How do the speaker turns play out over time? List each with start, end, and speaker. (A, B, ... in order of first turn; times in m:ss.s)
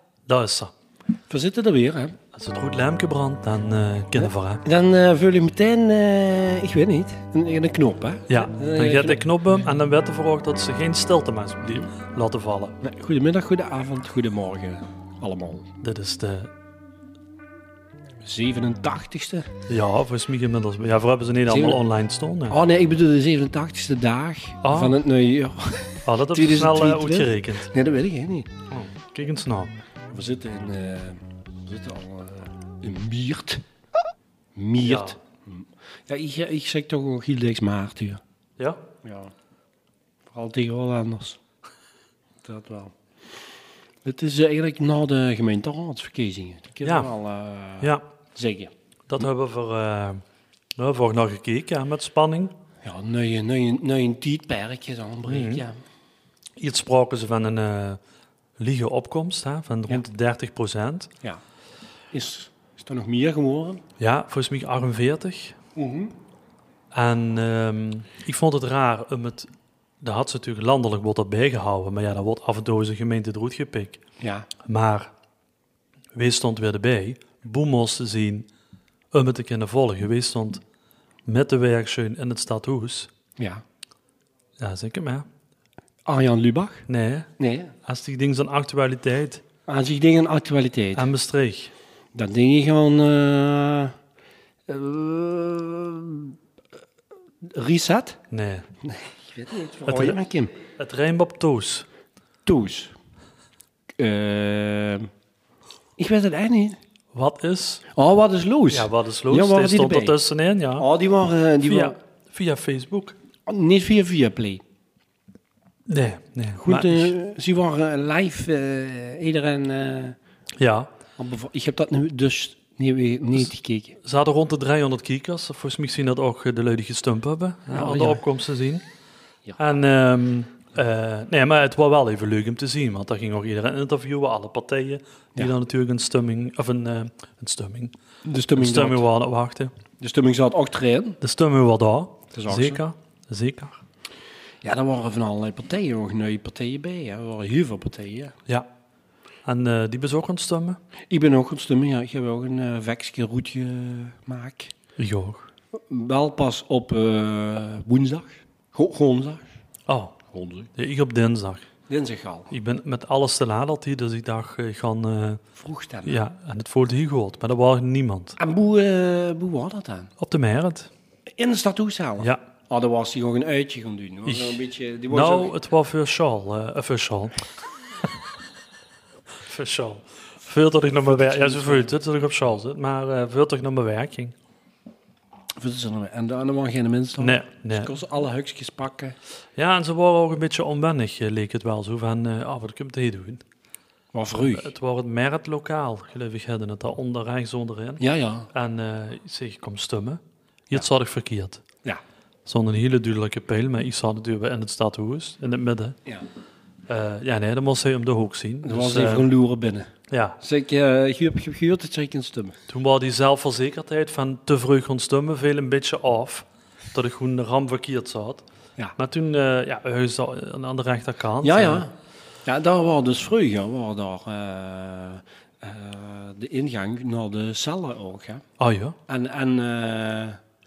0:00.3-0:00.7 A
0:01.3-0:02.2 B
0:02.3-0:04.6 A
0:04.2-0:09.3 B
0:08.3-0:12.8 A
0:12.8-0:15.7 B
0:15.8-0:16.5 A
0:18.2-0:19.5 B
0:19.7-0:22.6 A
0:21.5-0:21.8 B
0:22.5-0:28.5 B
0:24.6-0:25.0 A
0:26.0-0:27.7 A
0:28.7-0:29.7 A
0:30.1-0:33.6 B
0:34.5-0:38.2 B
0:34.8-0:35.2 A
0:39.0-0:39.3 B
0:40.3-0:41.4 B
0:42.4-0:43.4 B
0:44.0-0:49.2 B
0:46.8-0:47.1 A
0:47.8-0:48.1 A
0:49.1-0:50.2 A
0:50.8-0:52.5 A
0:52.8-0:55.8 B
0:55.3-0:55.6 A
0:56.6-0:58.0 A
0:58.6-1:01.1 A
1:02.1-1:03.8 B
1:04.0-1:05.6 A
1:05.7-1:06.1 B
1:06.9-1:09.5 A
1:10.0-1:14.0 A
1:14.2-1:14.5 B
1:14.6-1:15.1 A
1:16.1-1:18.5 A
1:19.1-1:20.6 A
1:21.2-1:23.1 A
1:23.4-1:23.6 B
1:24.6-1:25.2 A
1:26.0-1:26.8 B
1:26.9-1:27.3 A
1:27.4-1:27.7 B
1:27.8-1:29.4 A
1:29.7-1:31.1 B
1:30.9-1:31.7 A
1:32.1-1:33.9 B
1:34.7-1:36.4 B
1:37.4-1:38.2 B
1:38.3-1:38.7 A
1:38.8-1:40.5 B
1:39.8-1:40.2 A
1:40.7-1:41.9 A
1:42.4-1:42.9 B
1:44.0-1:45.1 B
1:46.0-1:46.8 B
1:47.1-1:47.8 A
1:47.9-1:50.2 B
1:48.7-1:50.9 A
1:50.8-1:52.0 B
1:51.6-1:53.2 A
1:53.5-1:54.6 B
1:55.9-1:57.1 A
1:56.6-2:00.2 B
2:00.6-2:00.9 A
2:01.2-2:04.0 B
2:04.0-2:08.8 A
2:07.7-2:08.2 B
2:09.6-2:17.9 A
2:18.2-2:19.0 B
2:18.6-2:19.7 A
2:20.0-2:21.2 B
2:21.2-2:23.8 A
2:22.3-2:22.8 B
2:24.6-2:28.4 B
2:29.4-2:30.8 A
2:31.1-2:34.7 B
2:35.0-2:35.5 A
2:35.7-2:39.5 B
2:39.9-2:40.2 A
2:40.3-2:40.7 B
2:40.7-2:41.7 A
2:41.9-2:42.5 B
2:42.5-2:45.4 A
2:45.6-2:46.2 B
2:46.0-2:48.4 A
2:48.4-2:50.1 B
2:50.2-2:50.9 A
2:51.3-2:55.5 B
2:54.2-2:57.4 A
2:59.4-3:04.3 A
3:01.0-3:01.9 B
3:05.6-3:09.2 B
3:07.2-3:07.9 A
3:09.6-3:13.4 A
3:14.1-3:14.7 B
3:14.4-3:21.6 A
3:18.0-3:18.5 B
3:22.4-3:26.0 A
3:26.9-3:29.3 A
3:28.6-3:29.9 B
3:30.1-3:30.4 A
3:30.4-3:32.6 B
3:32.7-3:38.4 A
3:39.0-3:41.8 A
3:41.4-3:41.9 B
3:42.4-3:48.4 B
3:48.6-3:49.0 A
3:49.1-3:50.4 B